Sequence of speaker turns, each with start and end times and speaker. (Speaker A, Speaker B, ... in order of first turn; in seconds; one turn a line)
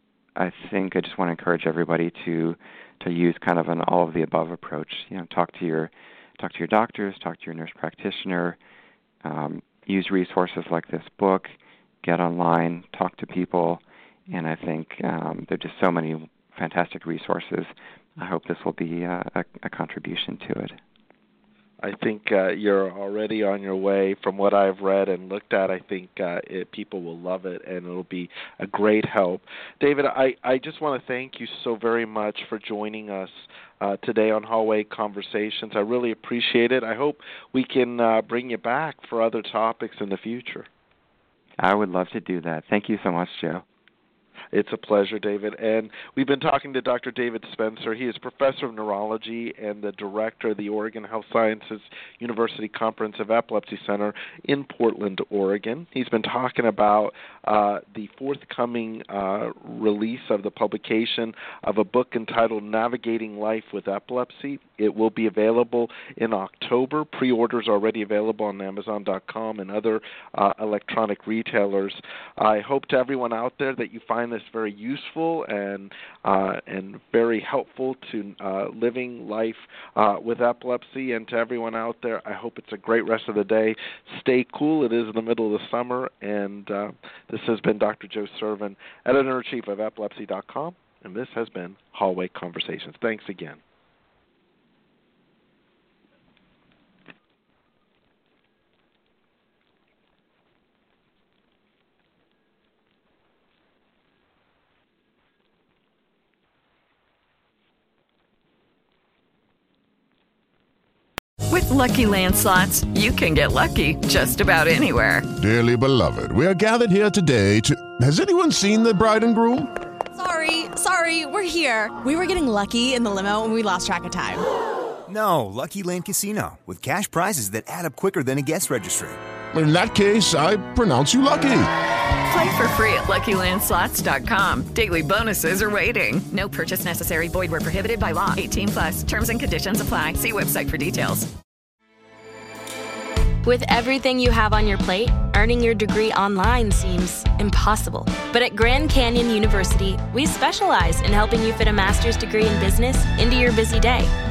Speaker A: 0.3-8.6
Speaker A: 9.2-20.8
Speaker B: 21.8-40.7
Speaker A: 41.6-43.6
Speaker B: 44.5-93.6
Speaker C: 111.5-115.2
Speaker D: 115.4-119.7
Speaker E: 120.1-124.4
Speaker F: 125.0-129.2
Speaker D: 129.5-131.7
Speaker C: 132.3-141.3
Speaker G: 143.4-154.1